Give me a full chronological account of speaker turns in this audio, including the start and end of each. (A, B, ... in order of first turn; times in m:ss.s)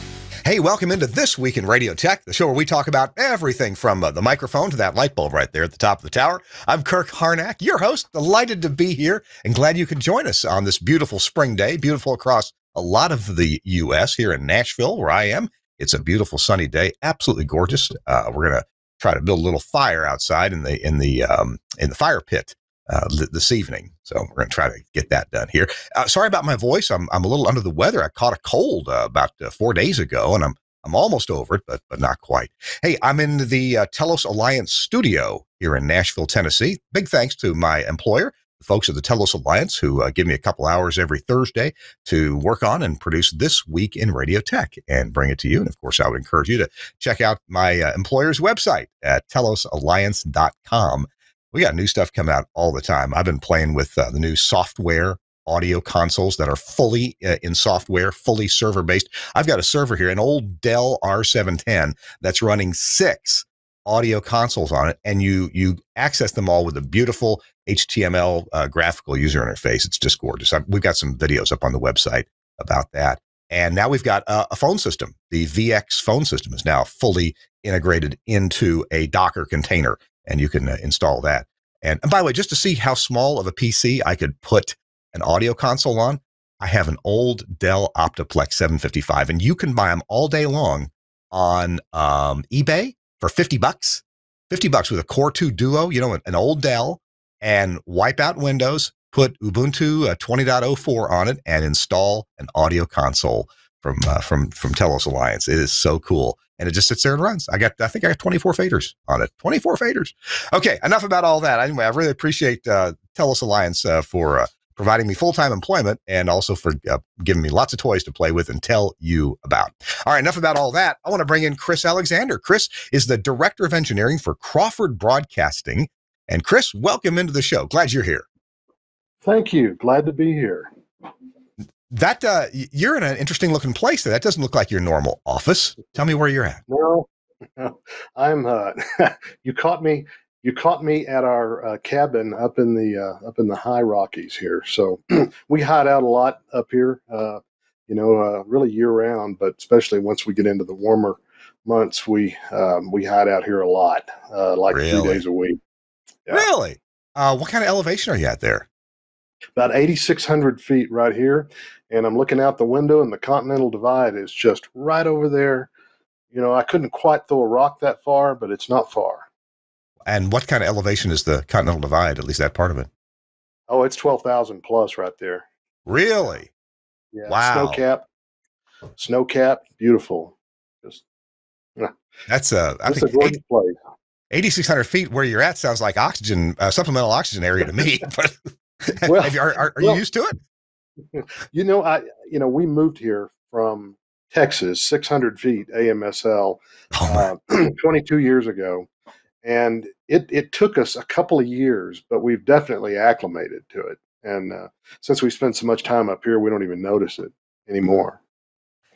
0:00.4-2:08.2 A
2:09.2-2:10.7 B
2:11.9-2:16.6 A
2:16.7-2:35.6 B
2:34.7-2:35.2 A
2:36.3-2:38.7 A
2:39.6-2:45.7 B
2:46.3-2:49.3 B
2:50.1-2:52.9 A
2:53.7-2:55.4 B
2:55.9-2:56.5 A
2:57.1-2:58.1 B
2:57.3-2:57.8 A
2:59.0-3:01.0 B
3:02.3-3:03.4 A
3:02.9-3:03.8 B
3:04.3-3:10.4 A
3:09.0-3:10.0 B
3:11.1-3:18.9 B
3:17.0-3:17.3 A
3:19.4-3:28.2 B